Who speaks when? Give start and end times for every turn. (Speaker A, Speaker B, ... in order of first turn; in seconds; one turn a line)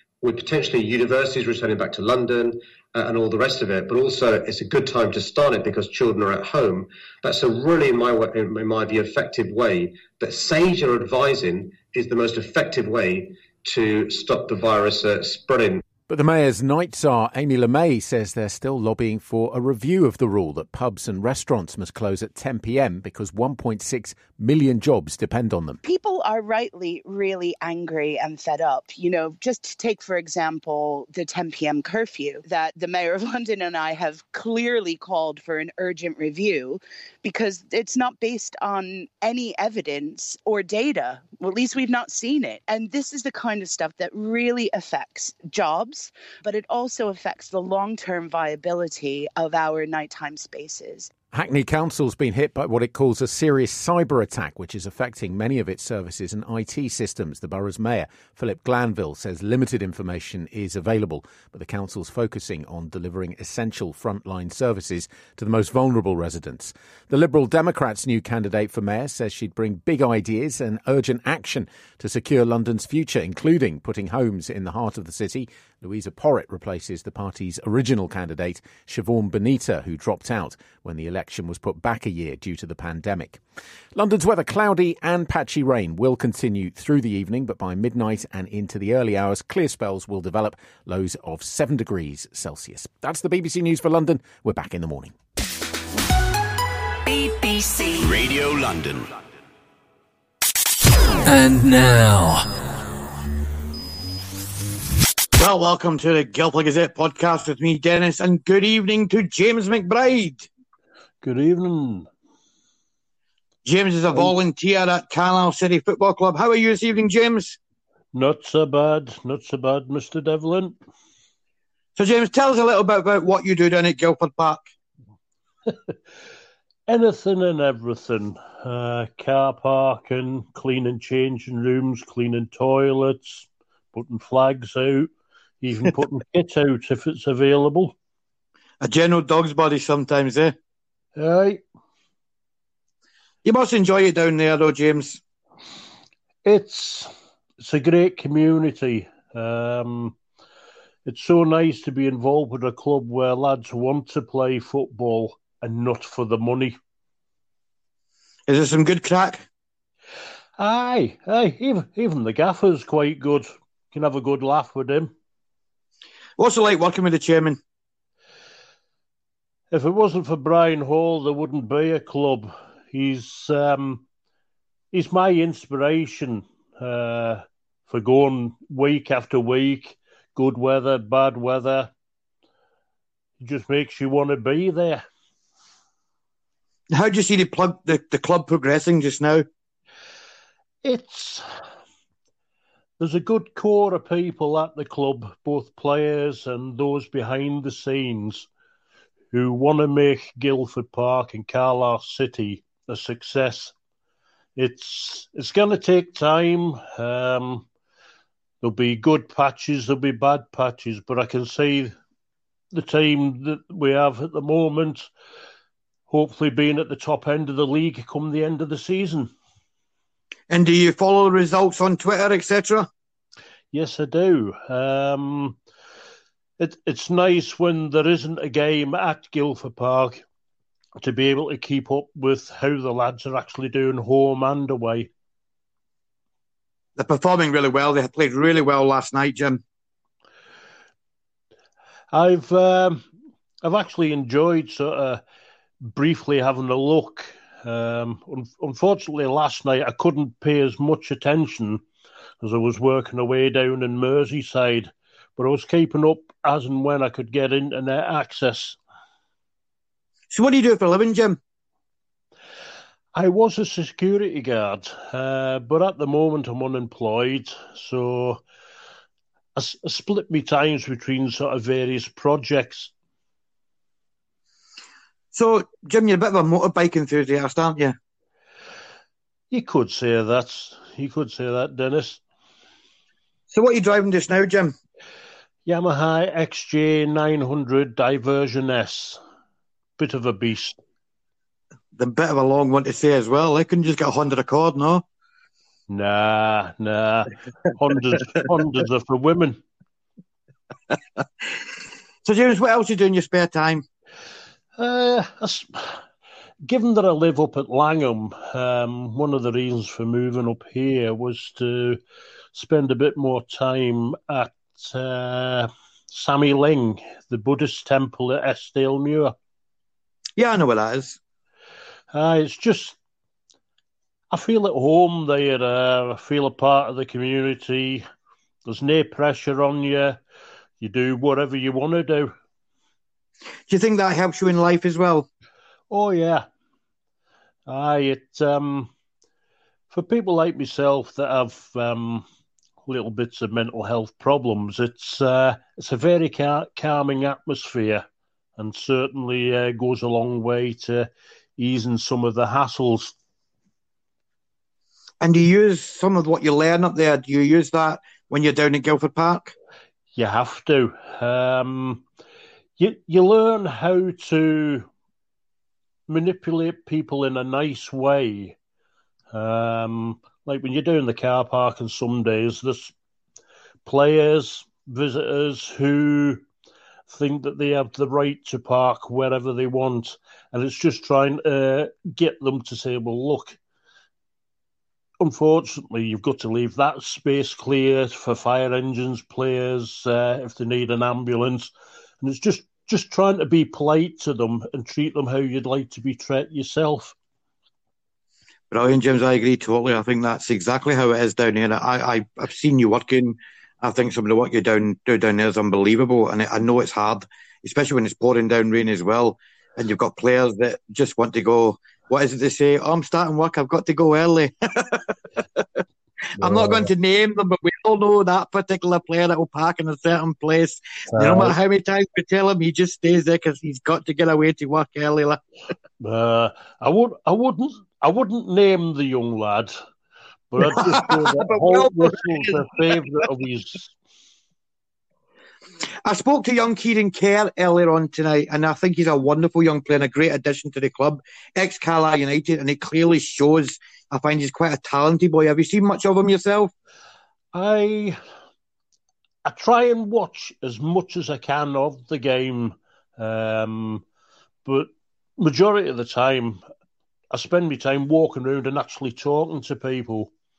Speaker A: 0.2-15.8
Speaker B: 16.1-25.8
Speaker C: 25.8-51.1
Speaker B: 51.3-83.4
Speaker B: 83.9-95.1
Speaker D: 97.1-99.1
Speaker E: 102.1-102.4
Speaker F: 105.4-110.5
Speaker E: 111.2-112.1
Speaker F: 113.7-117.6
Speaker E: 118.1-120.7
Speaker F: 122.0-124.7
Speaker E: 126.9-135.1
Speaker E: 135.6-137.9
Speaker F: 138.8-140.5
Speaker E: 141.2-141.6
Speaker F: 143.4-145.2
Speaker E: 146.4-150.1
Speaker E: 151.1-156.8
Speaker F: 158.5-159.4
Speaker E: 160.6-165.1
Speaker F: 166.4-167.6
Speaker E: 169.7-174.0
Speaker E: 174.9-181.9
Speaker E: 183.4-185.0
Speaker F: 186.9-189.4
Speaker E: 190.8-191.4
Speaker E: 193.0-198.5
Speaker E: 199.3-203.7
Speaker E: 204.6-207.7
Speaker E: 208.6-211.9
Speaker E: 212.7-215.1
Speaker E: 216.1-219.3
Speaker F: 220.5-222.9
Speaker E: 223.7-225.6
Speaker E: 226.6-230.2
Speaker E: 231.0-235.1
Speaker F: 237.0-239.6
Speaker E: 242.1-243.0
Speaker E: 243.6-245.2
Speaker E: 245.8-251.8
Speaker E: 252.4-258.8
Speaker F: 260.3-261.4
Speaker E: 263.1-268.4
Speaker E: 269.6-272.9
Speaker F: 275.3-277.9
Speaker E: 279.5-282.2
Speaker F: 283.5-284.7
Speaker E: 285.6-289.2
Speaker E: 290.0-290.8
Speaker F: 291.9-295.0
Speaker E: 295.9-299.6
Speaker F: 302.2-303.8
Speaker E: 304.8-305.9
Speaker E: 306.6-312.0
Speaker E: 312.5-319.3
Speaker F: 320.4-321.2
Speaker E: 322.1-322.9
Speaker E: 324.3-328.0
Speaker E: 328.6-330.2
Speaker E: 330.8-332.3
Speaker F: 333.7-335.3
Speaker E: 335.9-336.4
Speaker E: 337.7-338.9
Speaker E: 339.9-342.2
Speaker E: 342.8-348.0
Speaker E: 348.6-353.1
Speaker F: 355.2-359.5
Speaker E: 360.1-362.0
Speaker E: 362.8-364.9
Speaker E: 366.1-368.6
Speaker E: 369.3-372.9
Speaker E: 373.9-376.4
Speaker E: 377.1-383.6
Speaker E: 385.2-391.7
Speaker E: 392.2-397.1
Speaker F: 398.7-415.6
Speaker F: 416.4-425.4
Speaker E: 416.4-416.9
Speaker E: 421.1-421.5
Speaker E: 426.0-429.7
Speaker E: 430.5-433.9
Speaker F: 430.6-432.6
Speaker F: 436.0-446.7
Speaker E: 447.5-448.2
Speaker E: 449.4-454.0
Speaker E: 454.6-456.6
Speaker E: 457.3-460.3